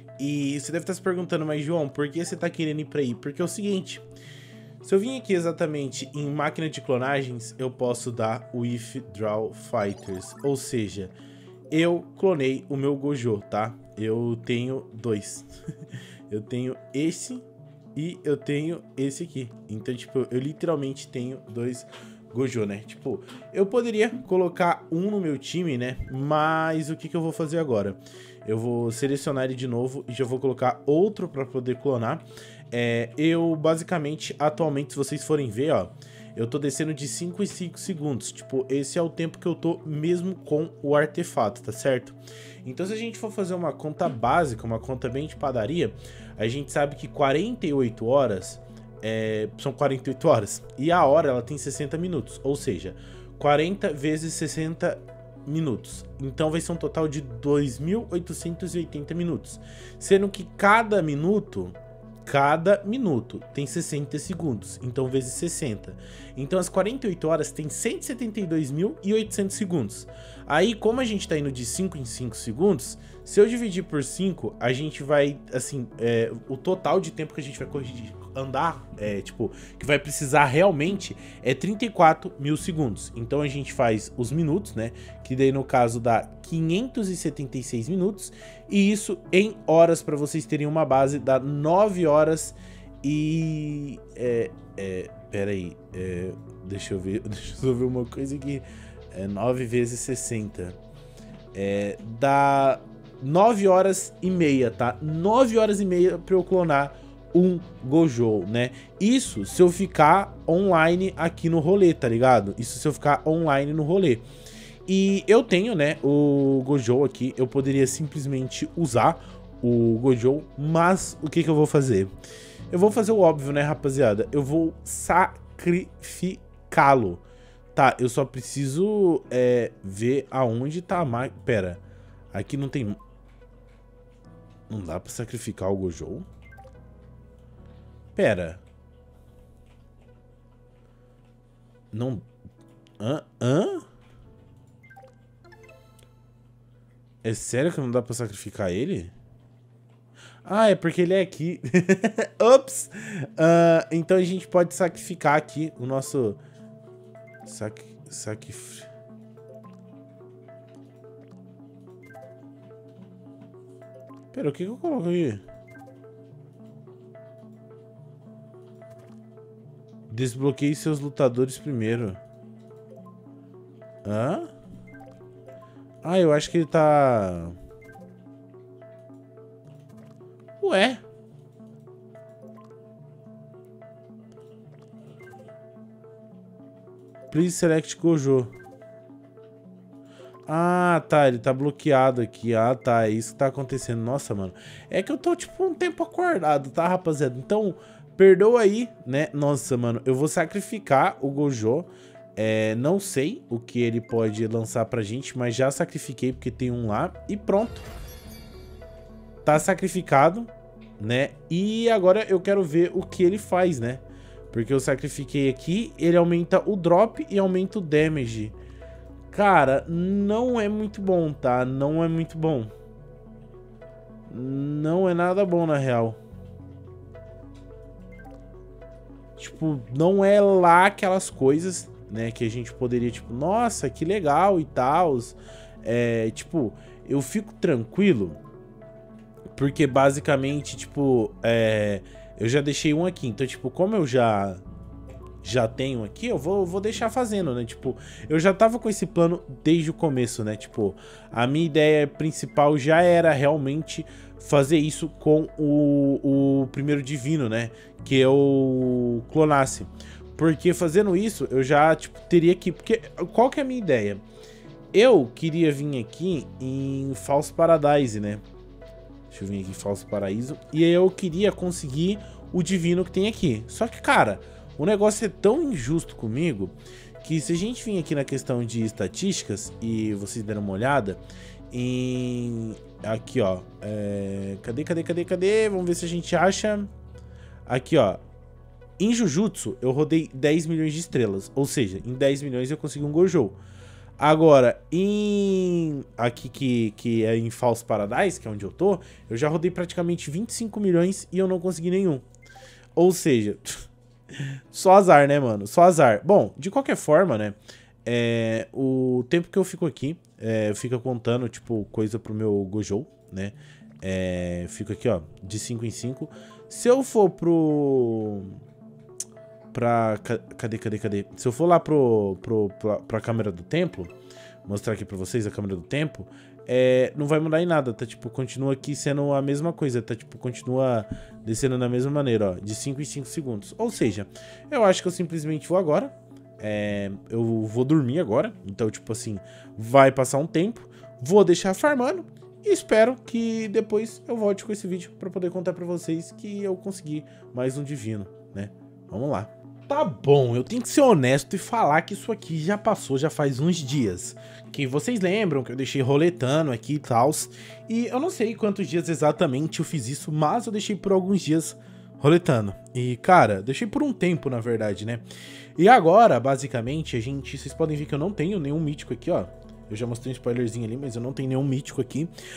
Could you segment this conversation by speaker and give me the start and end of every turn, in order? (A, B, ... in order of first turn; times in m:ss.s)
0:00.2-0:04.1 A
0:04.8-0:11.1 A
0:11.7-0:15.5 A
0:16.3-1:40.8 A
1:41.5-1:54.2 A
1:54.9-2:02.1 A
2:02.7-2:11.8 A
2:12.3-2:13.0 A
2:14.7-2:16.3 A
2:18.2-2:18.6 A
2:21.9-2:22.3 A
2:23.0-2:23.8 A
2:27.2-2:29.1 A
2:30.4-2:36.4 A
2:37.4-2:38.9 A
2:44.3-2:45.4 A
2:50.1-2:52.2 A
2:54.0-2:54.5 A
2:56.0-2:57.6 A
3:00.6-3:01.0 A
3:07.3-3:08.5 A
3:10.5-3:27.9 A
3:29.4-3:38.6 A
3:39.3-3:42.7 A
3:44.3-3:46.2 A
3:49.4-3:58.4 A
3:59.5-4:04.6 A
4:05.4-4:24.2 A
4:24.9-4:28.4 A
4:29.3-4:46.9 A
4:47.7-4:48.2 A
4:49.0-4:53.6 A
4:54.2-5:02.2 A
5:03.0-5:18.6 A
5:19.7-5:24.1 A
5:24.6-6:12.3 A